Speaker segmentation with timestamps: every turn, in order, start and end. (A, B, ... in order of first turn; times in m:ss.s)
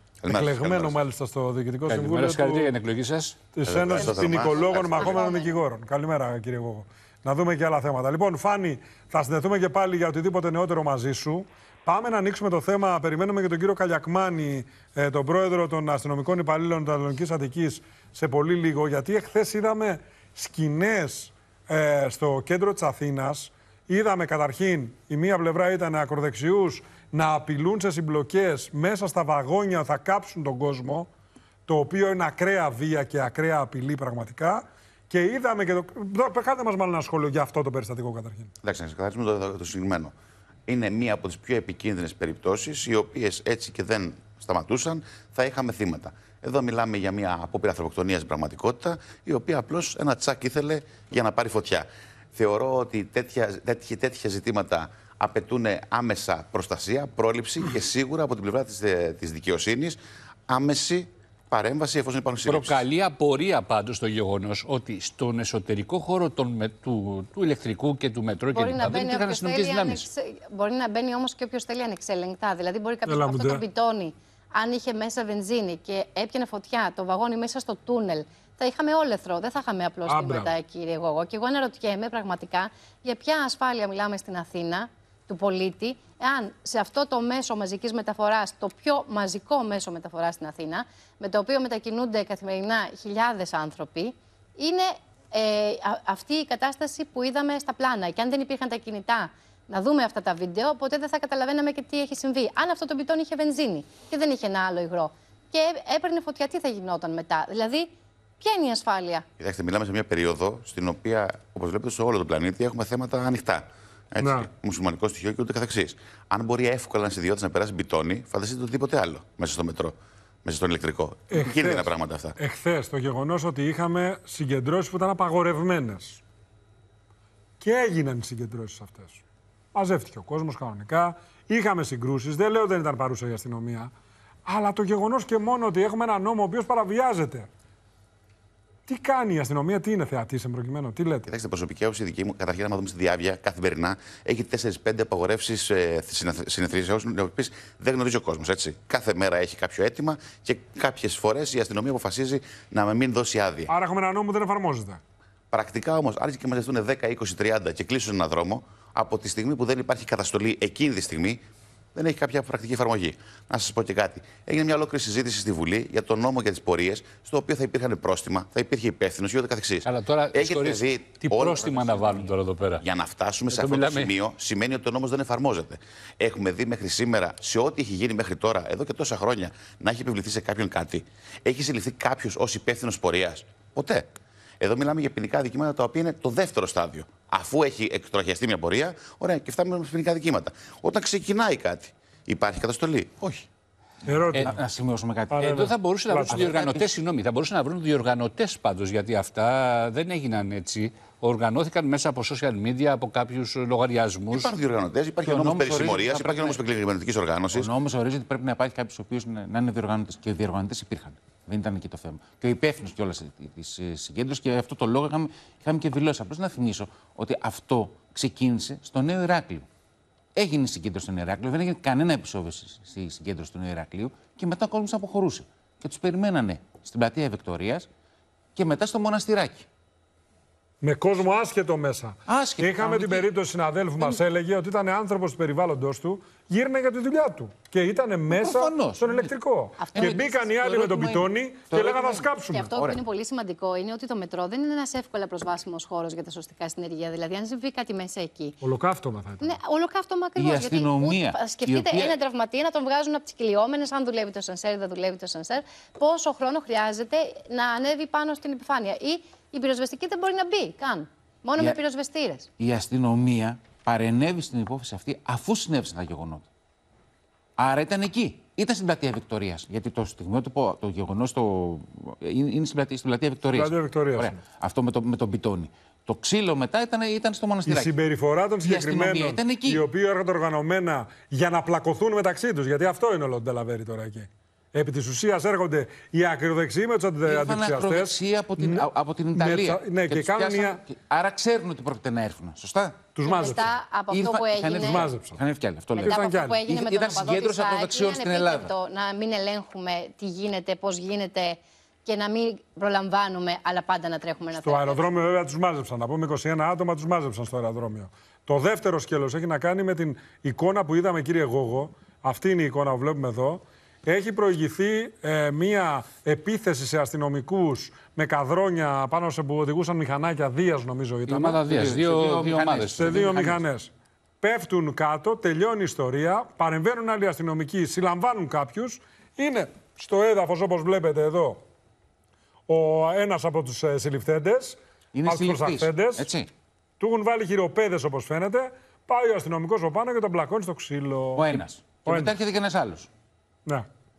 0:00.2-0:01.0 A
0:00.2-0:02.7 B
0:01.8-0:03.4 C
0:03.5-0:31.1 B
0:03.6-0:05.3 A
0:04.0-0:05.5 D
0:31.7-0:38.5 B
0:38.6-0:40.1 A
0:40.7-1:02.8 A
1:02.4-1:10.0 C
1:08.5-1:49.2 D
1:13.0-1:13.6 B
1:20.1-1:20.5 B
1:49.4-2:02.4 A
1:54.2-1:54.5 B
2:01.3-2:06.2 B
2:07.6-2:09.2 B
2:09.7-2:13.9 B
2:14.4-2:17.5 B
2:18.9-2:21.3 B
2:21.3-2:33.7 A
2:33.7-2:35.0 B
2:35.5-2:41.4 A
2:41.9-2:52.3 A
2:49.8-2:52.8 C
2:52.8-3:04.1 A
2:53.5-2:54.1 C
3:04.6-3:13.4 A
3:14.0-3:14.6 B
3:14.3-3:15.5 E
3:15.3-3:16.5 B
3:15.4-3:24.5 C
3:16.3-3:16.9 E
3:24.3-3:27.7 A
3:25.2-3:26.6 E
3:27.5-3:39.7 E
3:40.3-3:47.9 E
3:48.5-3:49.7 E
3:50.8-4:02.6 B
3:52.2-3:53.3 E
3:58.3-3:59.3 E
3:59.8-4:00.4 D
3:59.9-4:03.0 E
4:02.5-4:08.6 D
4:08.6-4:09.5 B
4:09.4-4:22.5 D
4:10.4-4:12.2 E
4:22.6-4:26.5 E
4:27.6-4:38.0 E
4:33.5-4:34.3 B
4:37.6-4:50.8 B
4:38.6-4:39.9 E
4:47.2-4:53.2 E
4:53.1-4:53.7 B
4:53.2-4:55.0 D
4:54.1-4:58.7 E
4:54.8-4:55.4 B
4:56.0-5:05.0 D
4:56.0-4:56.6 B
5:04.5-5:21.5 B
5:21.3-5:23.3 E
5:21.4-5:23.6 C
5:23.0-5:31.6 B
5:32.7-5:36.3 B
5:35.1-5:36.5 E
5:37.0-5:42.3 B
5:41.3-5:43.1 E